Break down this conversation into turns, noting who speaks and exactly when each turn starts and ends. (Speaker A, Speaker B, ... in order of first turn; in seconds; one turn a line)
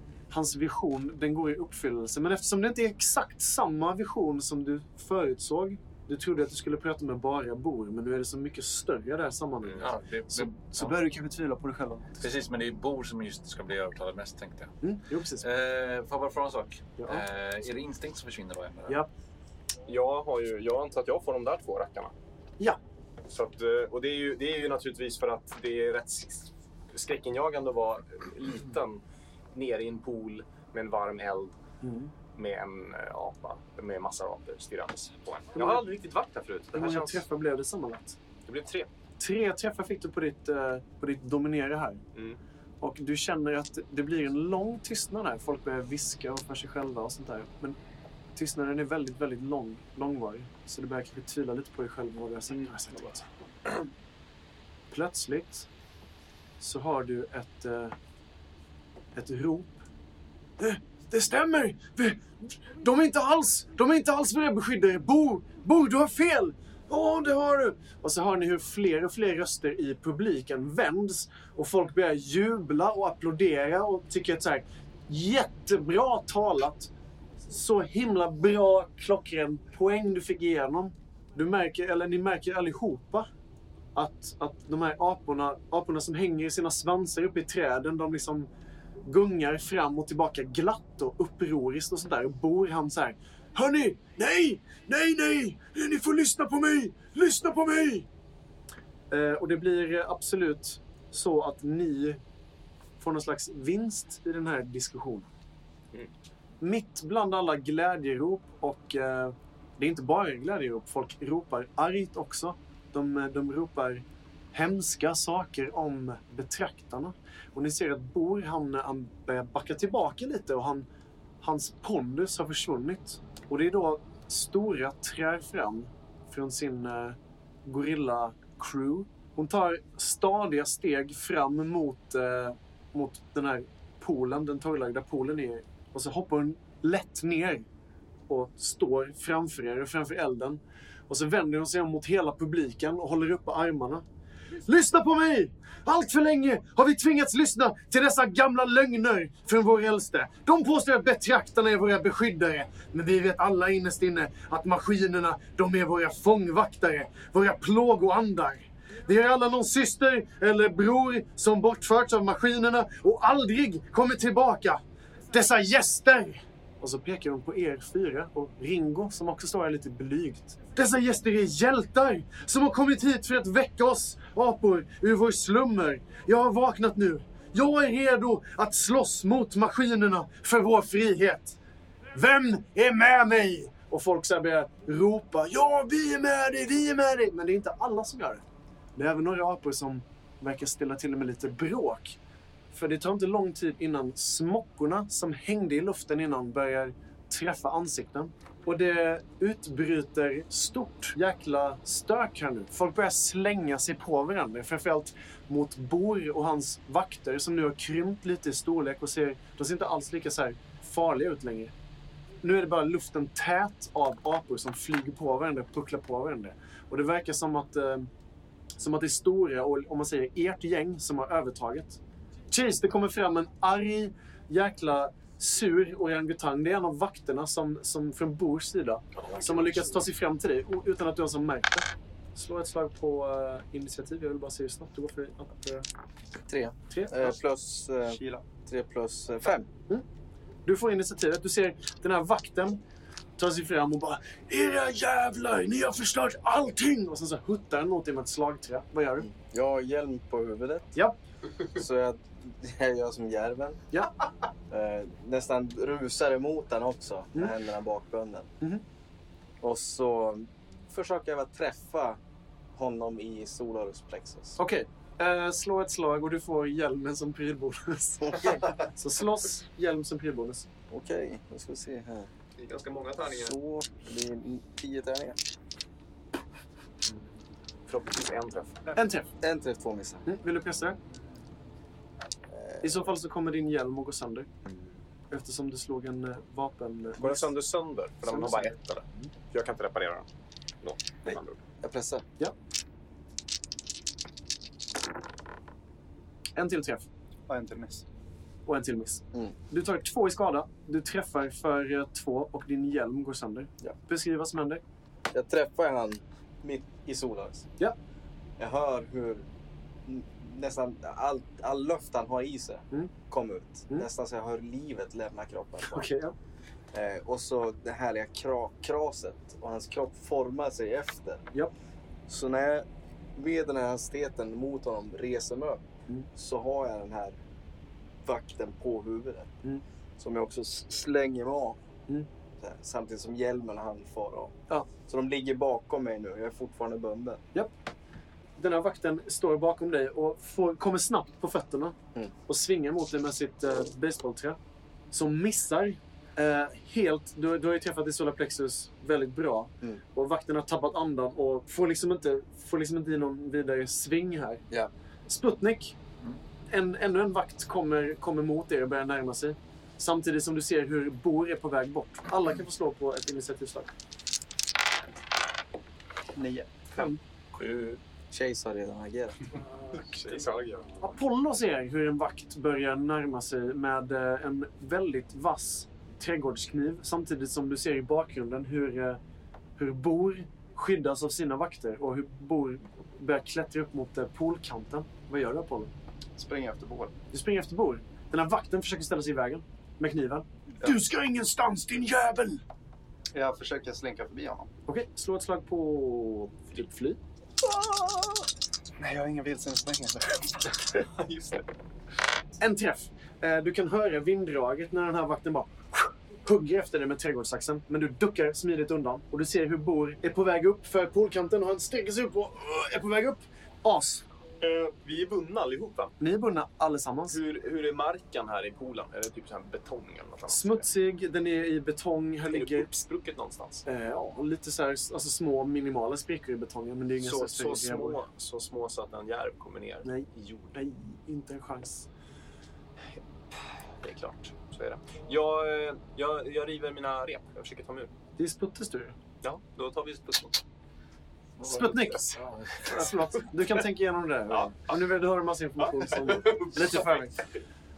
Speaker A: 0.3-12.3
Speaker B: 9.6-11.0
Speaker B: 12.2-14.7
Speaker A: 14.8-15.5
Speaker B: 15.4-19.0
Speaker A: 17.0-17.2
Speaker C: 19.9-22.1
Speaker C: 23.3-29.0
Speaker C: 29.5-31.6
Speaker A: 31.8-32.1
Speaker C: 32.3-37.2
Speaker A: 35.5-35.9
Speaker A: 36.7-38.2
Speaker C: 38.5-38.9
Speaker A: 39.2-42.0
Speaker A: 42.8-47.8
Speaker A: 48.4-53.9
Speaker A: 54.9-55.7
Speaker A: 56.6-58.0
Speaker A: 59.1-59.8
Speaker A: 60.6-76.9
Speaker A: 77.5-83.3
Speaker A: 83.9-88.5
Speaker A: 89.0-98.1
Speaker A: 99.1-102.2
Speaker A: 103.0-105.3
Speaker A: 106.6-120.9
Speaker A: 121.4-137.7
Speaker A: 138.3-144.0
Speaker A: 144.7-181.6
Speaker A: 182.1-188.4
Speaker A: 188.9-192.2
Speaker A: 192.7-211.7
Speaker A: 212.4-218.1
Speaker A: 218.8-222.0
Speaker A: 222.5-235.9
Speaker D: 236.4-239.7
Speaker A: 236.9-237.3
Speaker E: 238.1-238.4
Speaker A: 240.7-242.8
Speaker A: 243.4-249.3
Speaker D: 249.2-250.9
Speaker A: 250.9-251.2
Speaker D: 251.7-253.8
Speaker D: 254.7-258.5
Speaker D: 259.6-262.2
Speaker D: 262.7-264.6
Speaker A: 264.6-270.7
Speaker D: 268.2-268.8
Speaker D: 270.9-272.3
Speaker C: 272.6-273.6
Speaker D: 273.3-275.4
Speaker C: 277.9-278.9
Speaker A: 278.9-279.3
Speaker D: 279.4-280.2
Speaker A: 280.2-281.0
Speaker D: 282.5-283.0
Speaker A: 282.8-284.5
Speaker A: 285.3-287.5
Speaker C: 287.2-290.3
Speaker A: 288.2-289.3
Speaker C: 290.8-291.6
Speaker D: 291.3-292.2
Speaker A: 296.6-297.1
Speaker E: 297.5-298.0
Speaker A: 298.6-304.8
Speaker D: 305.3-307.7
Speaker D: 308.6-309.4
Speaker D: 310.0-316.1
Speaker A: 315.8-316.3
Speaker D: 316.9-321.4
Speaker D: 322.3-327.4
Speaker D: 328.2-329.6
Speaker D: 330.2-331.8
Speaker D: 332.6-337.4
Speaker A: 338.6-341.9
Speaker A: 342.5-344.6
Speaker A: 345.1-354.6
Speaker A: 355.3-356.0
Speaker A: 356.7-363.9
Speaker E: 366.3-366.9
Speaker B: 367.5-368.0
Speaker D: 368.3-369.4
Speaker A: 369.8-370.4
Speaker C: 370.0-370.9
Speaker A: 371.0-379.2
Speaker A: 379.8-385.9
Speaker E: 386.4-387.1
Speaker A: 387.3-392.6
Speaker E: 393.3-394.7
Speaker A: 394.9-397.2
Speaker E: 397.7-398.4
Speaker E: 399.0-400.9
Speaker C: 401.0-401.7
Speaker A: 402.6-414.2
Speaker C: 414.6-416.1
Speaker A: 416.2-417.4
Speaker C: 417.3-420.9
Speaker A: 420.5-422.9
Speaker C: 422.5-423.8
Speaker A: 423.8-428.2
Speaker C: 427.2-430.7
Speaker A: 430.0-432.1
Speaker C: 434.0-438.1
Speaker A: 438.4-439.1
Speaker C: 439.4-440.6
Speaker B: 441.6-443.2
Speaker A: 441.6-447.3
Speaker C: 444.5-444.9
Speaker C: 445.9-447.3